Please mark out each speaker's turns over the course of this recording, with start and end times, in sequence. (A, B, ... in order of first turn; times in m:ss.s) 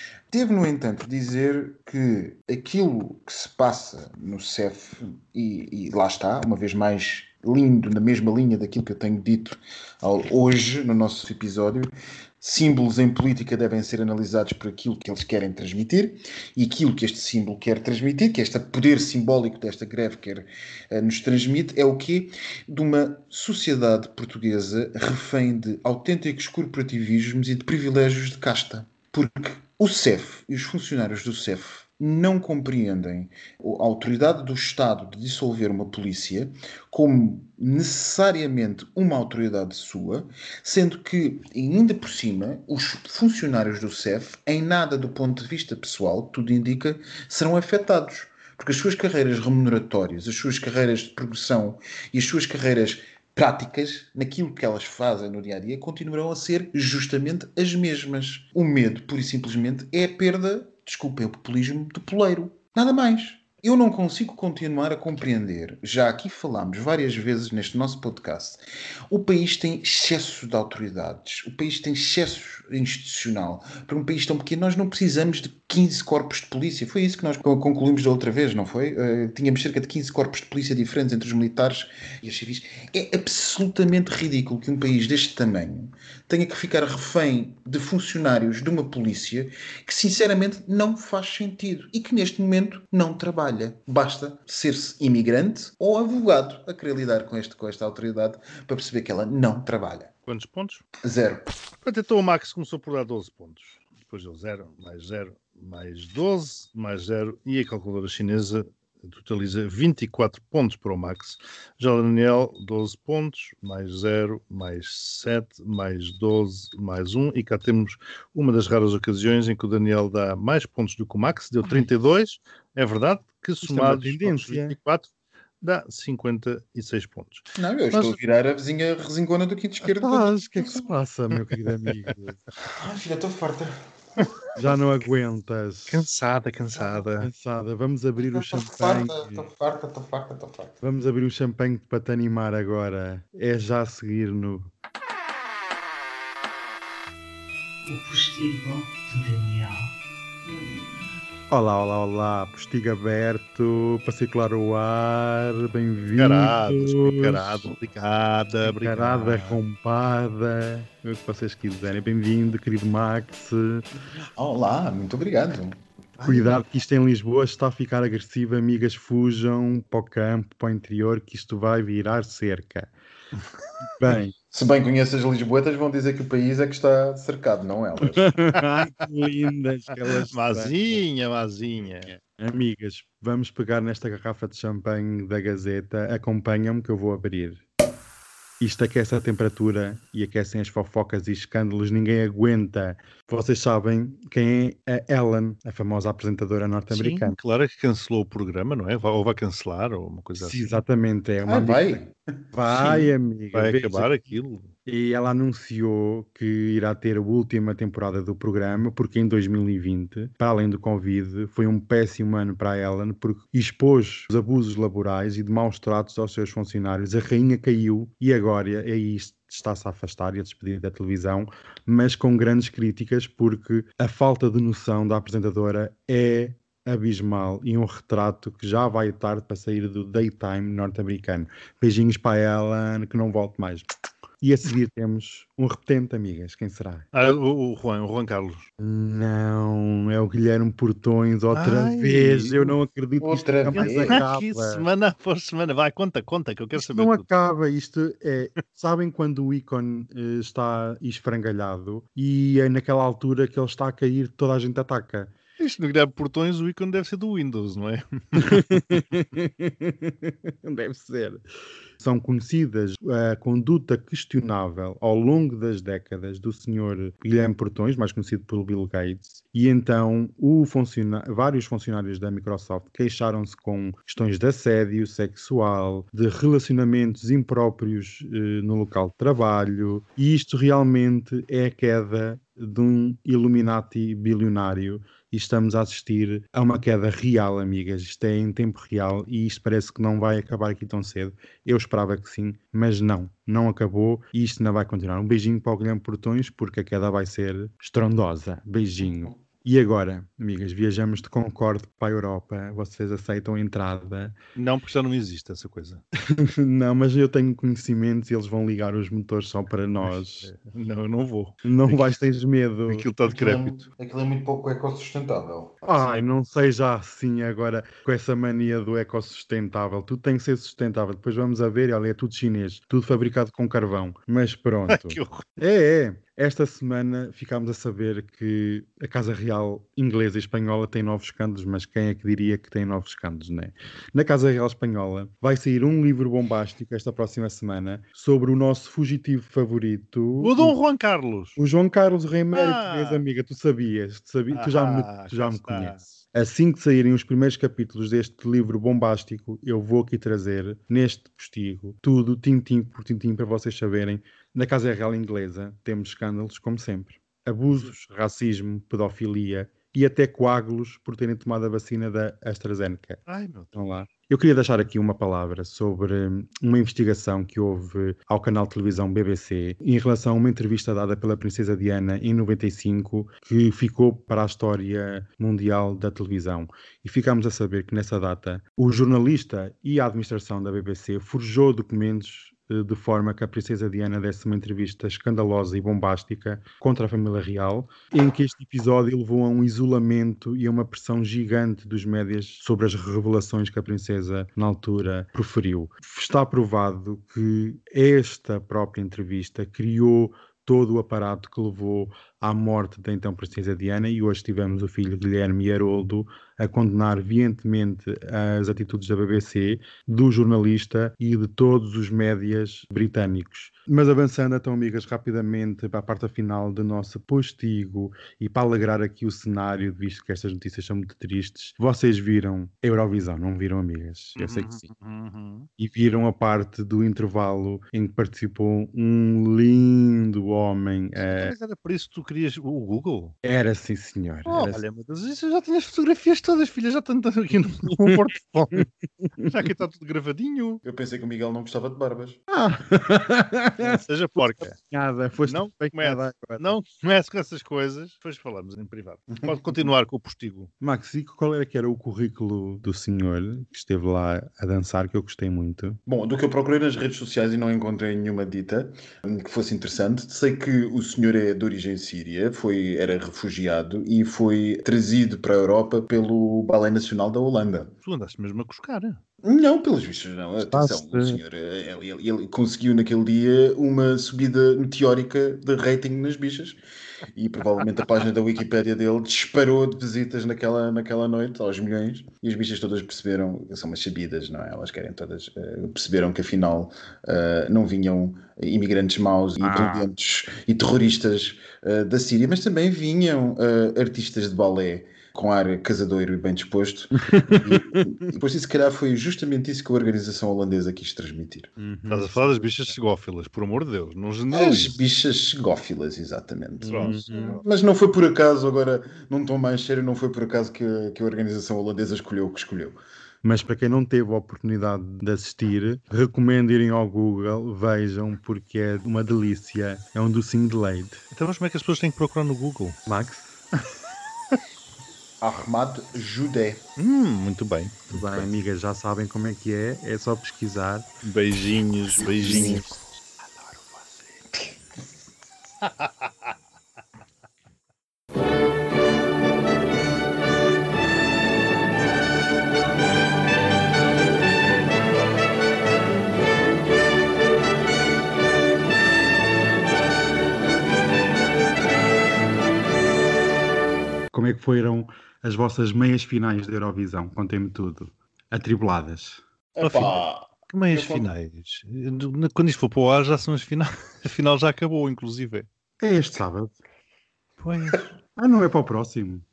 0:00.3-1:40.1 A
1:40.2-1:40.8 B
1:41.0-1:41.5 A
1:41.8-2:08.2 B
2:03.6-2:04.8 C
2:07.6-2:10.9 A
2:10.0-2:12.4 C
2:11.5-2:12.1 B
2:12.7-2:14.2 A
2:14.6-2:16.1 C
2:15.9-2:17.3 B
2:17.2-2:19.5 C
2:18.2-2:20.7 A
2:20.8-2:24.7 C
2:27.9-2:29.8 D
2:31.5-2:37.7 C
2:36.2-2:39.6 B
2:38.6-2:43.8 C
2:44.4-2:45.8 A
2:46.2-2:46.6 B
2:46.2-2:52.9 C
2:54.0-2:54.3 C
2:54.5-2:58.3 A
2:58.1-3:01.0 C
3:00.3-3:02.1 B
3:02.0-3:07.6 C
3:08.6-3:17.4 C
3:16.9-3:20.8 B
3:20.4-3:22.0 C
3:21.4-3:22.2 A
3:22.5-3:24.2 C
3:22.7-3:24.7 B
3:24.8-3:53.9 C
3:54.4-3:57.1 C
3:57.1-3:58.7 B
3:58.8-4:04.8 C
4:01.5-4:02.8 B
4:03.2-4:04.2 A
4:03.7-4:07.3 B
4:06.7-4:15.3 C
4:15.6-4:18.8 B
4:18.4-4:21.4 C
4:22.0-5:04.4 C
5:04.6-5:06.0 B
5:06.3-5:10.5 C
5:10.0-5:12.2 B
5:11.6-5:13.1 C
5:12.9-5:13.8 B
5:13.3-5:15.8 A
5:15.8-5:40.8 C
5:24.9-5:25.4 B
5:40.4-5:41.6 B
5:41.6-6:03.2 C
5:42.5-5:43.2 B
5:44.5-5:46.0 B
6:03.3-6:03.7 B
6:03.7-7:04.9 C
7:04.4-7:05.7 B
7:05.8-7:11.5 C
7:11.2-7:13.4 B
7:13.4-7:14.8 C
7:14.5-7:18.9 B
7:19.4-7:20.8 B
7:20.8-7:22.4 A
7:22.5-7:26.7 C
7:23.8-7:24.8 B
7:25.4-7:30.7 B
7:30.8-7:36.0 C
7:36.0-7:47.9 A
7:48.0-7:49.2 B
7:49.4-7:56.8 A
7:50.7-7:51.4 C
7:57.3-8:21.7 A
8:09.6-8:10.1 C
8:17.2-8:18.1 C
8:21.8-8:22.9 C
8:22.1-8:25.0 B
8:24.5-8:33.0 A
8:26.8-8:27.6 C
8:26.9-8:27.5 B
8:33.4-8:41.2 C
8:41.3-8:43.0 B
8:43.1-8:43.6 C
8:45.4-8:46.8 A
8:47.0-8:48.5 B
8:48.1-8:51.0 C
8:51.2-8:53.0 B
8:53.6-8:54.2 B
8:55.8-8:56.1 B
9:14.3-9:19.4 C
9:19.7-9:21.3 A
9:19.8-9:25.7 B
9:26.0-9:26.8 C
9:27.6-9:28.0 B
9:28.4-9:29.4 C